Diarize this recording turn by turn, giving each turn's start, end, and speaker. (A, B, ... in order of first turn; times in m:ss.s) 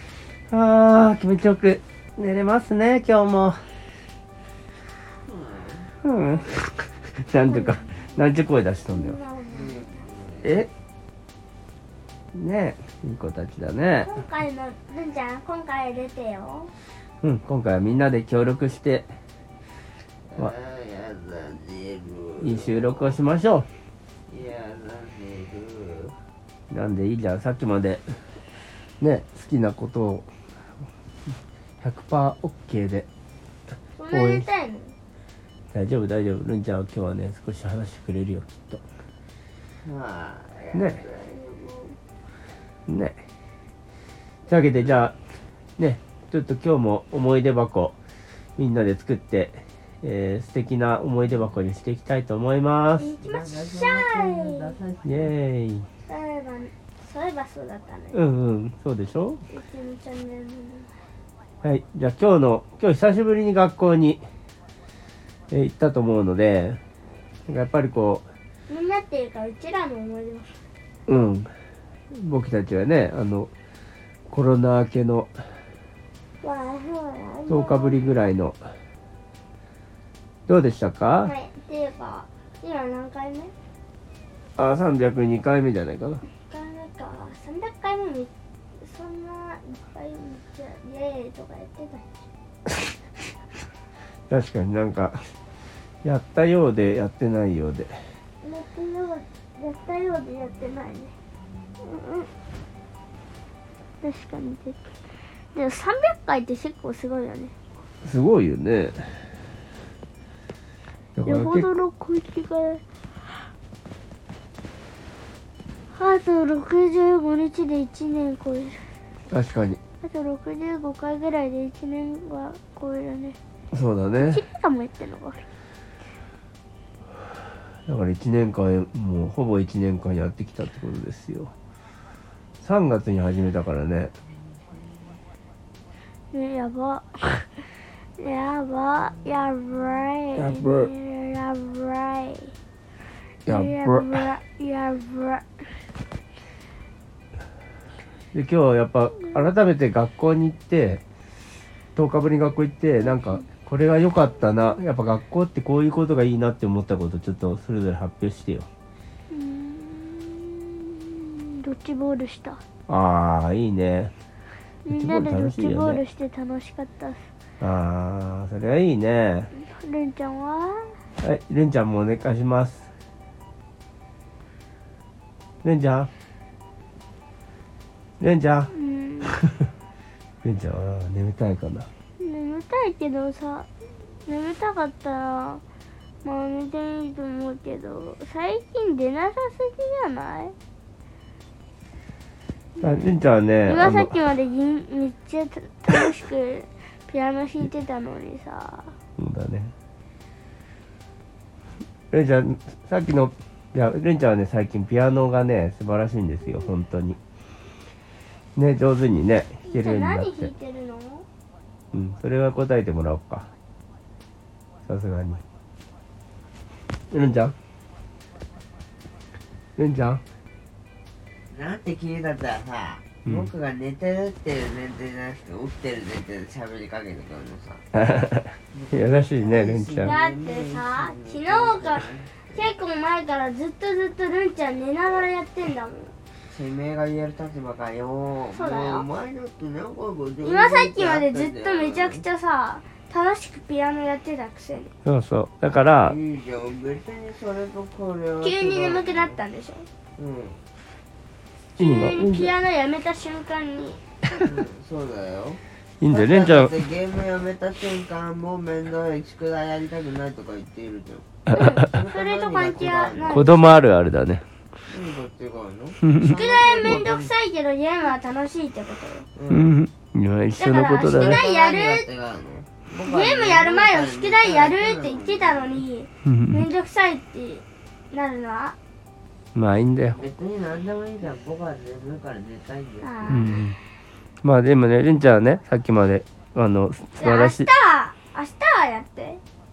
0:00.5-0:03.6 A
0:05.2-0:05.9 B
0:06.0-0:09.2 A
0:07.3-0:08.2 C
0:08.8-0:10.0 C
0:09.5-0:10.7 B
0:10.4-0:10.7 A
0:12.3-0:14.1 A
0:14.0-0:16.7 C
0:17.2-0:19.1 A
0:20.3-0:23.1 B
0:22.4-0:23.7 A
0:24.3-0:26.2 B
0:26.7-0:28.0 A
0:29.0-0:30.3 A
0:31.8-0:33.1 A
0:34.0-0:35.0 C
0:34.1-0:34.4 A
0:35.7-0:38.8 A
0:39.8-0:41.3 B
0:40.7-0:41.0 A
0:41.2-0:42.0 C
0:42.9-0:43.2 A
0:44.5-0:45.1 A
0:45.8-0:48.0 A
0:48.6-0:53.1 A
0:53.0-0:54.7 C
0:53.2-0:55.3 B
0:55.0-0:55.9 A
0:56.0-0:58.2 C
0:58.1-0:59.4 A
0:59.5-1:01.0 C
1:01.6-1:04.2 A
1:05.5-1:06.8 A
1:07.5-1:08.2 A
1:08.7-1:10.6 C
1:11.1-1:11.5 A
1:12.1-1:13.5 A
1:14.3-1:15.3 A
1:16.4-1:18.1 C
1:17.5-1:18.6 A
1:20.5-1:21.3 A
1:21.2-1:23.5 C
1:24.6-1:26.2 A
1:26.4-1:32.2 C
1:34.3-1:35.2 A
1:36.0-1:38.0 A
1:38.4-1:41.1 C
1:41.8-1:42.3 C
1:44.0-1:47.5 C
1:48.0-1:49.2 A
1:51.2-1:51.6 A
1:51.2-1:53.5 C
1:55.9-1:58.9 C
1:59.3-1:59.8 A
2:00.0-2:03.4 C
2:03.7-2:04.4 A
2:04.2-2:05.4 C
2:07.8-2:11.5 A
2:12.6-2:14.1 A
2:14.7-2:15.2 B
2:16.3-2:22.5 C
2:20.4-2:20.9 A
2:23.4-2:25.9 C
2:23.5-2:24.3 A
2:28.3-2:31.0 A
2:32.0-2:38.7 A
2:33.0-2:33.4 C
2:39.3-2:42.6 C
2:42.9-2:44.1 A
2:44.8-2:47.3 C
2:44.9-2:46.0 A
2:47.6-2:49.5 A
2:49.5-2:51.0 C
2:51.2-2:52.9 A
2:55.6-2:56.1 A
2:58.2-2:58.7 A
2:58.7-2:59.3 C
3:00.4-3:01.9 A
3:02.2-3:03.7 C
3:04.2-3:05.6 C
3:06.2-3:10.6 C
3:12.8-3:13.1 C
3:12.8-3:14.1 A
3:13.6-3:18.9 C
3:19.2-3:19.7 A
3:22.1-3:27.2 A
3:28.6-3:30.5 A
3:29.6-3:31.2 C
3:31.9-3:33.5 A
3:34.8-3:35.4 A
3:37.1-3:37.5 A
3:39.8-3:40.2 A
3:41.5-3:47.8 B
3:47.9-3:50.2 A
3:48.7-3:52.7 B
3:50.0-3:56.1 C
3:56.5-4:02.2 B
3:58.5-3:59.1 C
4:00.4-4:04.9 C
4:05.0-4:06.2 A
4:06.0-4:09.4 B
4:08.4-4:09.9 C
4:10.2-4:10.6 B
4:11.8-4:14.4 C
4:11.8-4:12.5 A
4:14.4-4:23.5 B
4:16.0-4:16.7 A
4:21.5-4:23.6 C
4:23.3-4:24.4 A
4:24.9-4:27.3 B
4:26.0-4:26.3 A
4:26.2-4:29.3 C
4:29.3-4:29.7 B
4:29.5-4:31.4 A
4:30.6-4:32.0 C
4:31.0-4:35.8 B
4:33.0-4:38.8 C
4:36.2-4:36.6 A
4:39.5-4:40.2 A
4:40.1-4:43.6 B
4:43.0-4:43.8 C
4:43.3-4:43.8 A
4:44.4-4:47.7 A
4:47.2-4:49.4 C